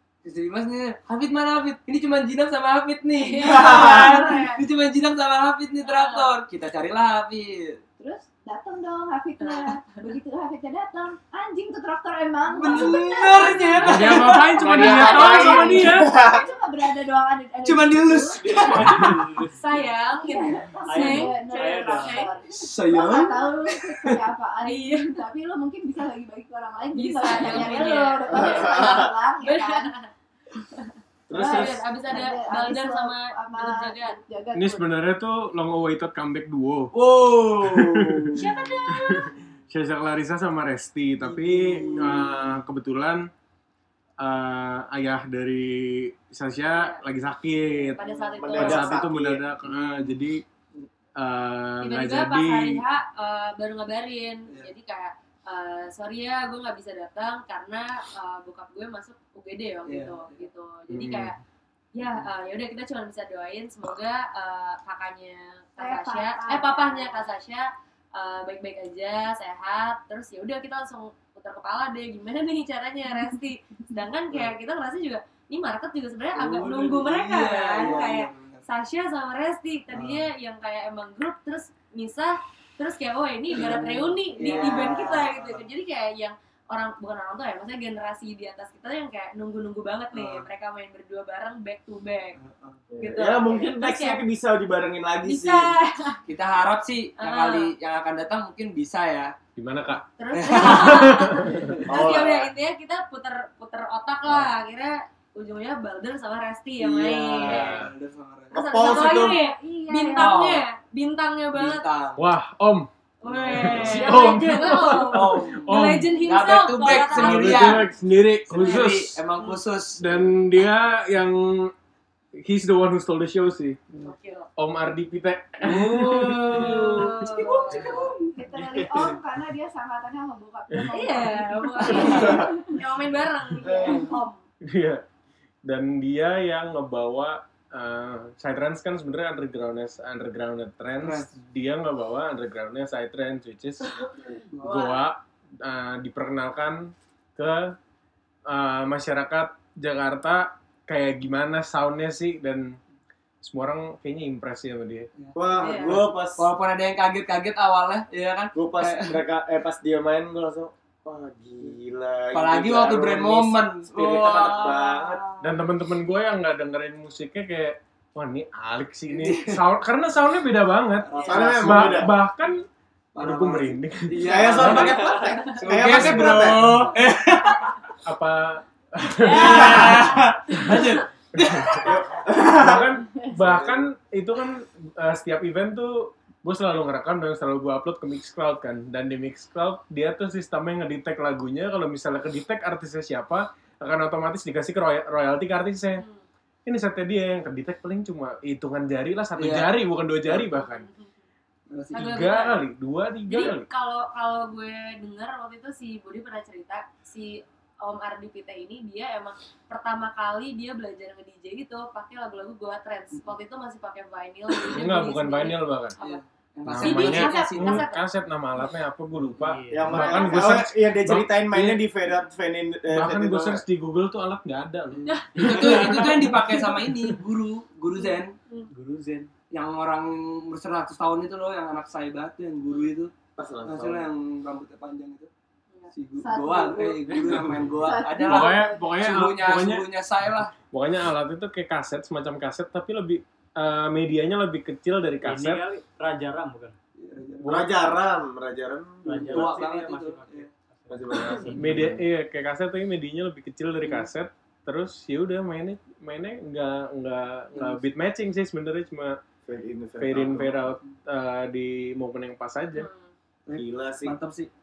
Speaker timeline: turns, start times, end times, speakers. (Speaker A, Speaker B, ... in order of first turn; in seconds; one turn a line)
Speaker A: 0.2-7.8
Speaker B: 3.2-4.6
Speaker B: 5.8-6.3
Speaker C: 8.0-19.2
Speaker B: 9.4-10.0
Speaker A: 12.6-16.1
Speaker B: 12.6-13.0
Speaker D: 13.8-16.1
Speaker E: 14.6-16.5
Speaker A: 17.6-19.3
Speaker F: 18.8-19.6
Speaker B: 19.5-22.3
Speaker C: 20.2-29.9
Speaker F: 20.9-22.3
Speaker A: 22.5-24.2
Speaker B: 24.6-25.2
Speaker B: 26.9-28.9
Speaker A: 27.4-27.9
Speaker E: 28.3-29.1
Speaker B: 29.4-34.2
Speaker E: 31.3-31.9
Speaker C: 31.3-34.9
Speaker D: 34.5-36.9
Speaker A: 36.9-38.4
Speaker D: 37.6-43.3
Speaker B: 38.4-39.3
Speaker C: 38.5-38.9
Speaker A: 41.3-42.4
Speaker D: 44.2-48.0
Speaker B: 46.7-47.0
Speaker B: 48.0-48.9
Speaker E: 48.4-49.4
Speaker D: 48.5-50.4
Speaker D: 51.2-52.8
Speaker B: 51.8-61.3
Speaker A: 59.9-60.5
Speaker D: 60.9-61.4
Speaker B: 61.9-92.4
Speaker C: 65.8-67.1
Speaker A: 76.3-78.6
Speaker A: 79.9-80.3
Speaker A: 83.5-85.6
Speaker E: 84.5-85.2
Speaker A: 90.1-90.5
Speaker A: 92.4-92.8
Speaker E: 92.9-95.7
Speaker B: 93.0-94.2
Speaker B: 95.2-96.2
Speaker A: 96.3-99.3
Speaker B: 97.2-97.7
Speaker D: 99.5-101.8
Speaker B: 100.2-107.8
Speaker A: 100.3-101.8
Speaker E: 101.8-102.5
Speaker A: 106.8-108.5
Speaker D: 107.4-107.9
Speaker E: 108.5-109.4
Speaker B: 108.5-111.8
Speaker C: 109.0-110.3
Speaker A: 110.2-110.6
Speaker A: 111.5-112.2
Speaker D: 112.2-112.9
Speaker B: 113.2-117.8
Speaker A: 113.2-114.2
Speaker D: 113.5-116.1
Speaker A: 115.0-117.8
Speaker D: 117.0-119.2
Speaker A: 118.5-120.3
Speaker D: 120.0-121.7
Speaker D: 122.4-123.9
Speaker B: 124.0-124.5
Speaker D: 124.6-126.8
Speaker A: 125.6-129.2
Speaker B: 126.5-128.1
Speaker C: 127.3-132.8
Speaker B: 130.9-134.3
Speaker C: 133.6-134.3
Speaker A: 133.6-134.1
Speaker D: 134.6-135.0
Speaker D: 135.6-144.0
Speaker A: 141.0-141.3
Speaker A: 144.4-144.9
Speaker D: 144.6-147.8
Speaker D: 148.5-152.8
Speaker D: 153.4-155.1
Speaker A: 155.2-159.2
Speaker E: 155.3-156.5
Speaker B: 155.6-156.0
Speaker E: 158.5-165.4
Speaker A: 162.3-165.4
Speaker D: 165.4-172.6
Speaker A: 169.2-169.6
Speaker A: 171.1-172.1
Speaker E: 171.1-172.1
Speaker A: 173.2-177.9
Speaker D: 173.2-175.0
Speaker E: 174.2-176.9
Speaker D: 175.6-176.9
Speaker D: 178.0-196.0
Speaker A: 179.3-182.0
Speaker E: 181.8-183.8
Speaker B: 195.9-196.2
Speaker D: 196.7-200.9
Speaker A: 199.4-200.4
Speaker B: 200.6-201.1
Speaker A: 201.7-202.1
Speaker B: 201.9-202.6
Speaker D: 201.9-203.7
Speaker B: 203.3-216.2
Speaker D: 214.7-216.0
Speaker A: 216.0-217.8
Speaker D: 216.7-221.8
Speaker B: 216.8-218.0
Speaker F: 219.2-220.2
Speaker E: 219.7-223.6
Speaker D: 222.9-226.5
Speaker A: 225.1-228.3
Speaker F: 225.4-225.8
Speaker F: 228.7-229.3
Speaker A: 229.5-233.1
Speaker E: 233.4-234.1
Speaker A: 233.6-235.3
Speaker A: 235.9-240.5
Speaker C: 236.2-238.8
Speaker F: 237.2-238.0
Speaker D: 238.2-239.9
Speaker D: 240.7-245.6
Speaker F: 245.2-246.7
Speaker A: 247.0-247.7
Speaker D: 247.4-247.9
Speaker E: 247.4-249.8
Speaker F: 249.0-252.0
Speaker A: 249.1-250.5
Speaker E: 250.9-252.0
Speaker D: 251.5-259.2
Speaker E: 259.4-260.6
Speaker D: 260.0-262.9
Speaker B: 262.8-263.1
Speaker A: 263.4-264.5
Speaker E: 263.6-264.1